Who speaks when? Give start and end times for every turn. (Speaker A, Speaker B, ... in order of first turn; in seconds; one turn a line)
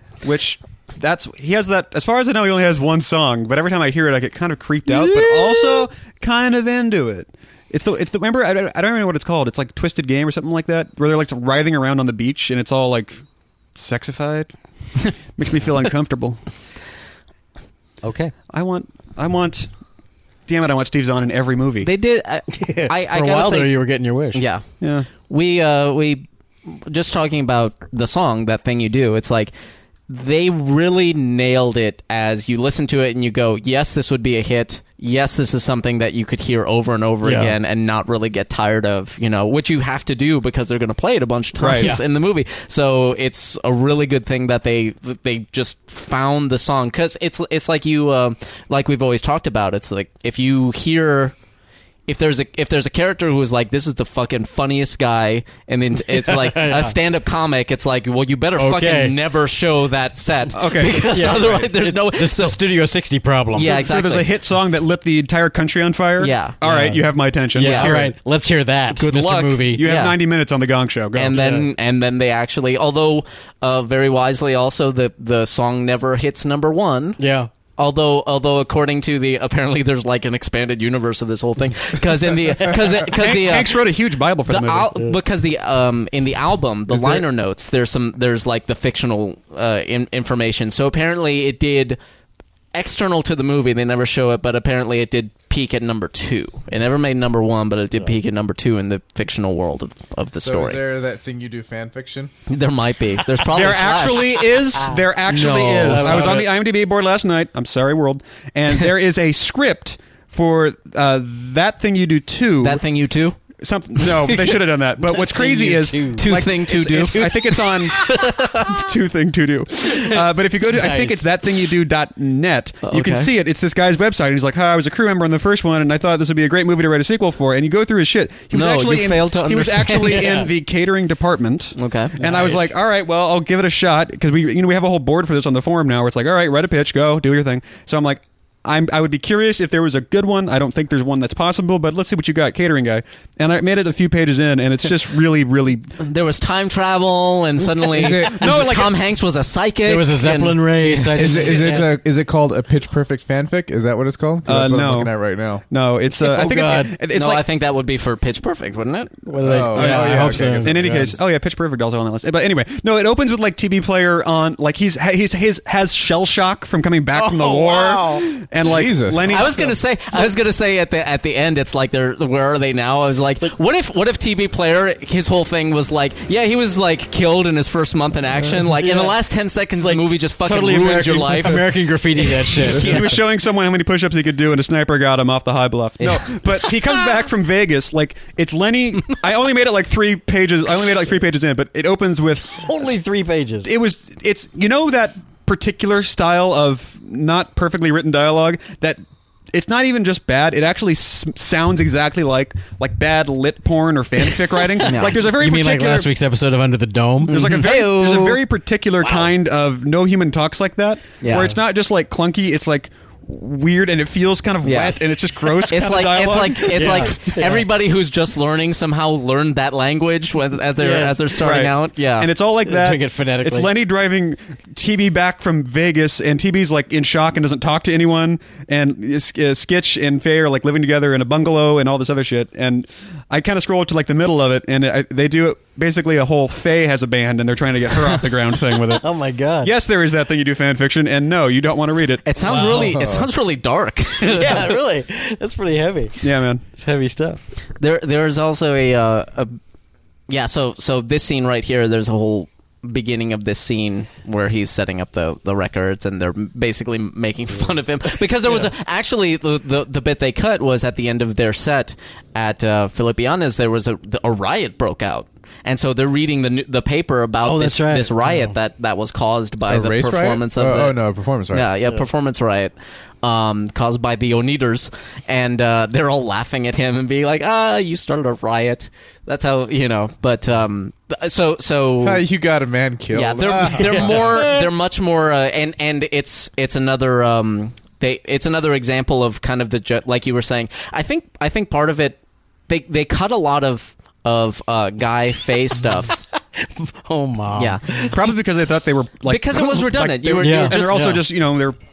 Speaker A: 0.2-13.2
Speaker B: 4.9-5.8
Speaker A: 13.7-14.5
Speaker A: 15.3-16.4
Speaker B: 18.0-18.3
Speaker A: 18.5-19.7
Speaker A: 20.5-21.9
Speaker C: 21.8-23.7
Speaker B: 22.5-24.4
Speaker C: 24.3-24.6
Speaker A: 24.8-25.1
Speaker C: 25.2-29.5
Speaker C: 30.1-51.3
Speaker B: 37.2-37.5
Speaker A: 41.6-41.9
Speaker B: 41.8-42.0
Speaker C: 52.1-62.6
Speaker B: 56.1-57.0
Speaker B: 58.6-59.1
Speaker A: 60.5-61.7
Speaker B: 61.1-63.7
Speaker C: 63.5-64.3
Speaker A: 63.6-68.1
Speaker C: 66.2-66.6
Speaker B: 66.6-69.8
Speaker C: 67.6-68.0
Speaker C: 68.9-70.2
Speaker A: 69.7-71.4
Speaker C: 71.1-77.2
Speaker B: 71.3-71.7
Speaker B: 77.2-77.5
Speaker C: 77.8-83.8
Speaker A: 83.1-84.9
Speaker C: 84.5-92.0
Speaker A: 86.9-87.2
Speaker C: 92.7-100.8
Speaker D: 100.3-102.3
Speaker C: 102.5-104.4
Speaker A: 103.5-112.8
Speaker B: 105.3-106.5
Speaker C: 105.9-106.3
Speaker C: 112.6-113.3
Speaker A: 113.6-145.9
Speaker C: 114.0-114.6
Speaker B: 115.0-116.3
Speaker C: 116.2-118.7
Speaker B: 120.6-121.2
Speaker C: 122.8-123.3
Speaker C: 128.5-130.5
Speaker C: 131.8-132.7
Speaker B: 132.2-132.7
Speaker C: 146.0-151.6
Speaker D: 147.9-148.4
Speaker A: 148.2-149.0
Speaker B: 149.8-151.9
Speaker D: 151.2-155.6
Speaker A: 154.4-155.1
Speaker A: 155.7-157.4
Speaker B: 156.2-156.9
Speaker C: 157.1-159.2
Speaker B: 159.2-161.2
Speaker D: 159.4-161.1
Speaker A: 159.7-169.7
Speaker B: 167.1-168.4
Speaker D: 168.6-169.3
Speaker C: 169.3-183.2
Speaker B: 169.3-170.3
Speaker B: 178.5-179.1
Speaker B: 179.8-183.2
Speaker A: 182.6-193.0
Speaker C: 186.0-186.8
Speaker B: 192.6-193.7
Speaker A: 193.6-206.1
Speaker C: 204.8-205.2
Speaker B: 204.9-207.4
Speaker A: 207.3-217.2
Speaker C: 207.3-208.4
Speaker B: 209.0-209.3
Speaker C: 211.2-211.5
Speaker C: 214.6-222.3
Speaker B: 216.7-217.7
Speaker B: 220.8-221.3
Speaker A: 221.4-239.0
Speaker B: 222.6-223.7
Speaker B: 238.8-239.7
Speaker A: 239.6-242.8
Speaker C: 242.2-244.8
Speaker B: 242.4-242.9
Speaker D: 242.7-243.3
Speaker B: 244.2-247.4
Speaker A: 246.2-246.6
Speaker C: 247.8-249.6
Speaker C: 250.3-271.0
Speaker B: 267.4-268.5
Speaker D: 269.7-271.7
Speaker C: 271.5-282.2
Speaker D: 282.0-284.4
Speaker C: 283.1-292.2
Speaker B: 283.7-284.7
Speaker C: 292.7-296.2
Speaker B: 296.6-298.2
Speaker C: 297.6-298.0
Speaker A: 298.1-301.8
Speaker C: 299.2-301.2
Speaker B: 300.4-301.2